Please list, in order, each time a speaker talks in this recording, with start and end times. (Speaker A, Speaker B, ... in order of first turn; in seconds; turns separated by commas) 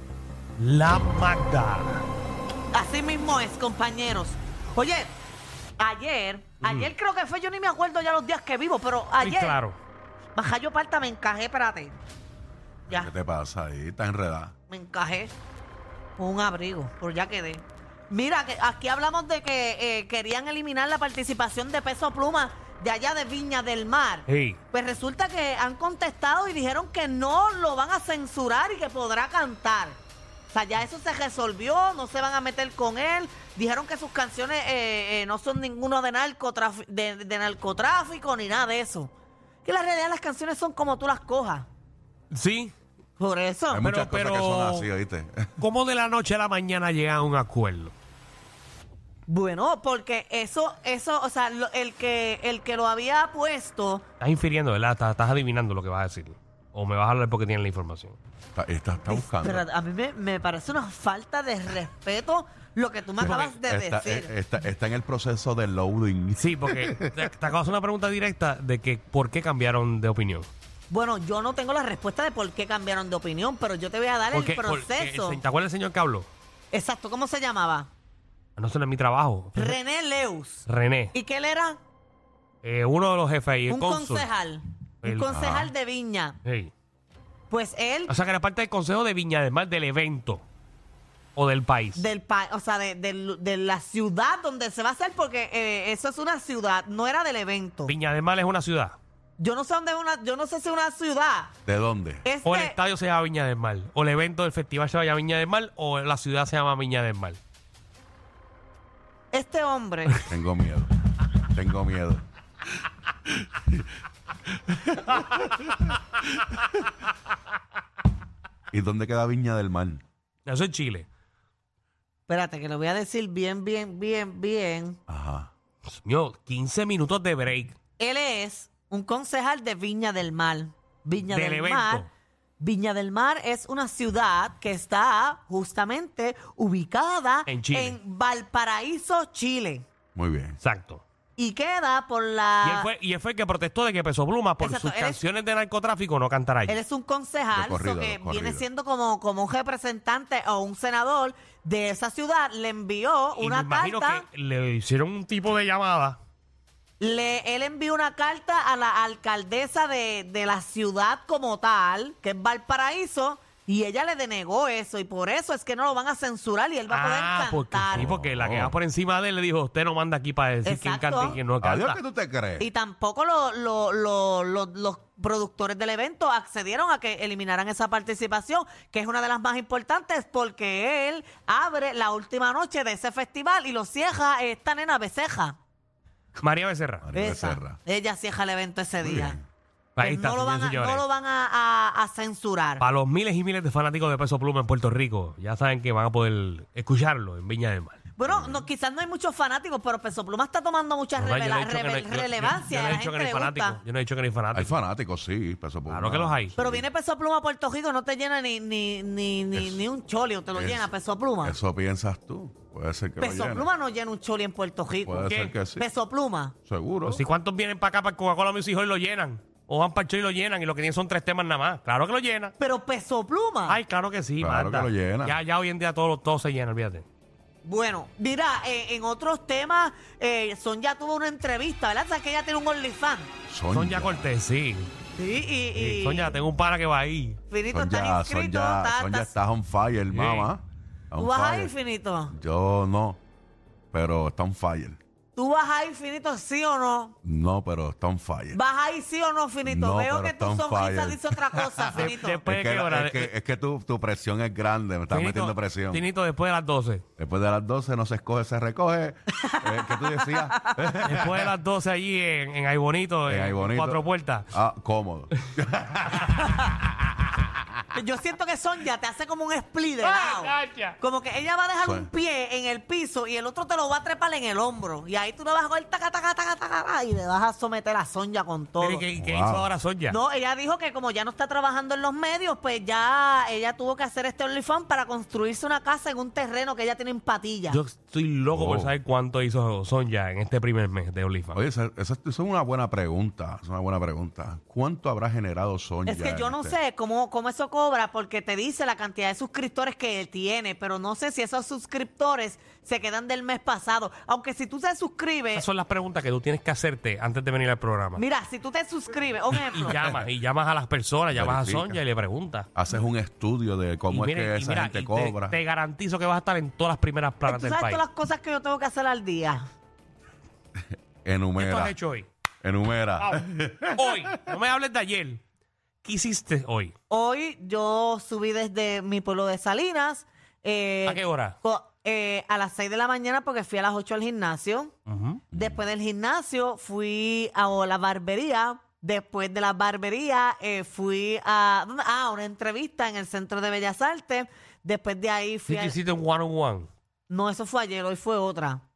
Speaker A: 0.6-2.0, Speaker B: 2.7-5.1, Speaker B: 5.8-9.6, Speaker A: 6.6-6.9, Speaker A: 9.2-9.8, Speaker B: 10.4-12.0, Speaker C: 12.9-14.5, Speaker B: 14.7-15.3, Speaker B: 16.2-30.0, Speaker A: 24.3-24.6, Speaker B: 30.5-39.1, Speaker B: 39.6-41.7, Speaker A: 42.3-42.7, Speaker B: 43.2-43.8, Speaker C: 43.7-45.5, Speaker A: 43.8-44.9, Speaker A: 45.6-47.9, Speaker B: 49.3-54.0, Speaker A: 54.2-58.2, Speaker C: 58.5-59.6, Speaker B: 59.1-64.3, Speaker C: 63.2-67.1, Speaker A: 63.2-63.5, Speaker A: 66.4-70.5, Speaker B: 70.9-75.4, Speaker A: 74.3-76.3, Speaker B: 76.7-77.9, Speaker A: 78.6-79.8, Speaker B: 79.5-81.8, Speaker A: 80.7-81.2, Speaker A: 82.6-84.3, Speaker B: 83.7-86.4, Speaker A: 85.0-85.5, Speaker C: 85.3-85.7, Speaker A: 86.4-86.7, Speaker B: 87.5-88.1, Speaker A: 88.1-90.5, Speaker A: 91.4-92.1, Speaker B: 92.0-97.9, Speaker A: 97.9-99.0, Speaker B: 99.4-101.5, Speaker C: 101.7-102.3, Speaker B: 102.2-102.8, Speaker A: 102.4-107.4, Speaker B: 109.3-110.3, Speaker C: 110.3-112.2, Speaker C: 113.3-113.8, Speaker C: 114.6-115.7, Speaker C: 118.7-120.0, Speaker A: 120.5-121.1, Speaker B: 122.3-125.0, Speaker C: 125.1-125.5, Speaker A: 125.9-127.8, Speaker B: 128.0-132.1, Speaker A: 131.2-132.1, Speaker B: 132.6-139.9, Speaker A: 137.5-138.0, Speaker C: 140.2-140.6, Speaker A: 140.6-141.0, Speaker B: 141.4-142.9, Speaker A: 142.6-146.8, Speaker B: 144.6-145.2, Speaker B: 146.7-154.2, Speaker C: 147.5-148.7, Speaker A: 153.3-156.2, Speaker B: 157.0-168.1, Speaker A: 166.9-172.0, Speaker C: 167.9-168.8, Speaker B: 170.7-171.4, Speaker C: 171.3-172.7, Speaker B: 172.6-185.6, Speaker A: 186.4-187.1, Speaker C: 187.0-187.8, Speaker B: 187.1-189.4, Speaker C: 189.0-189.4, Speaker A: 190.0-191.0, Speaker B: 190.0-192.8, Speaker A: 192.8-198.0, Speaker B: 198.2-203.8, Speaker C: 198.2-198.7, Speaker A: 201.2-204.8, Speaker C: 204.5-206.9, Speaker A: 205.9-206.5, Speaker B: 206.6-211.6, Speaker C: 209.6-209.8, Speaker C: 210.5-210.9, Speaker C: 211.4-213.7, Speaker B: 213.2-216.6, Speaker C: 215.1-215.9, Speaker A: 215.3-215.5, Speaker C: 216.7-217.2, Speaker A: 217.1-222.5, Speaker B: 222.6-223.8, Speaker A: 223.7-227.1, Speaker C: 224.4-225.4, Speaker B: 227.7-233.3, Speaker C: 233.5-234.3, Speaker A: 233.7-234.9, Speaker B: 235.2-236.3, Speaker A: 235.7-237.4, Speaker B: 237.5-239.3, Speaker C: 237.7-241.7, Speaker A: 240.1-240.5, Speaker B: 241.2-242.3, Speaker C: 242.3-243.2, Speaker C: 243.9-245.0, Speaker B: 245.4-247.2, Speaker C: 247.2-248.6, Speaker B: 248.5-252.4, Speaker C: 249.7-256.1, Speaker A: 251.9-253.3, Speaker A: 255.1-257.0, Speaker C: 257.2-261.5, Speaker B: 259.5-260.9, Speaker A: 261.1-264.5, Speaker C: 263.3-267.6, Speaker B: 267.9-279.1, Speaker A: 270.0-271.0, Speaker C: 271.8-272.1, Speaker A: 278.8-280.2, Speaker C: 279.2-279.7, Speaker B: 280.1-287.8, Speaker A: 287.7-291.6, Speaker C: 288.5-288.9, Speaker C: 291.5-296.8, Speaker B: 296.1-305.6, Speaker A: 305.5-308.2, Speaker B: 308.2-310.0, Speaker A: 309.6-312.7, Speaker C: 311.3-312.0, Speaker C: 312.8-315.6, Speaker A: 314.1-318.0, Speaker B: 317.5-319.7, Speaker C: 321.2-321.9, Speaker A: 321.6-322.3, Speaker C: 322.6-324.4, Speaker A: 323.2-325.4, Speaker A: 326.0-326.9, Speaker B: 327.1-334.9, Speaker A: 331.1-331.6, Speaker A: 335.1-335.4, Speaker C: 335.5-335.8, Speaker B: 335.5-346.0, Speaker A: 345.7-346.9, Speaker B: 347.3-348.8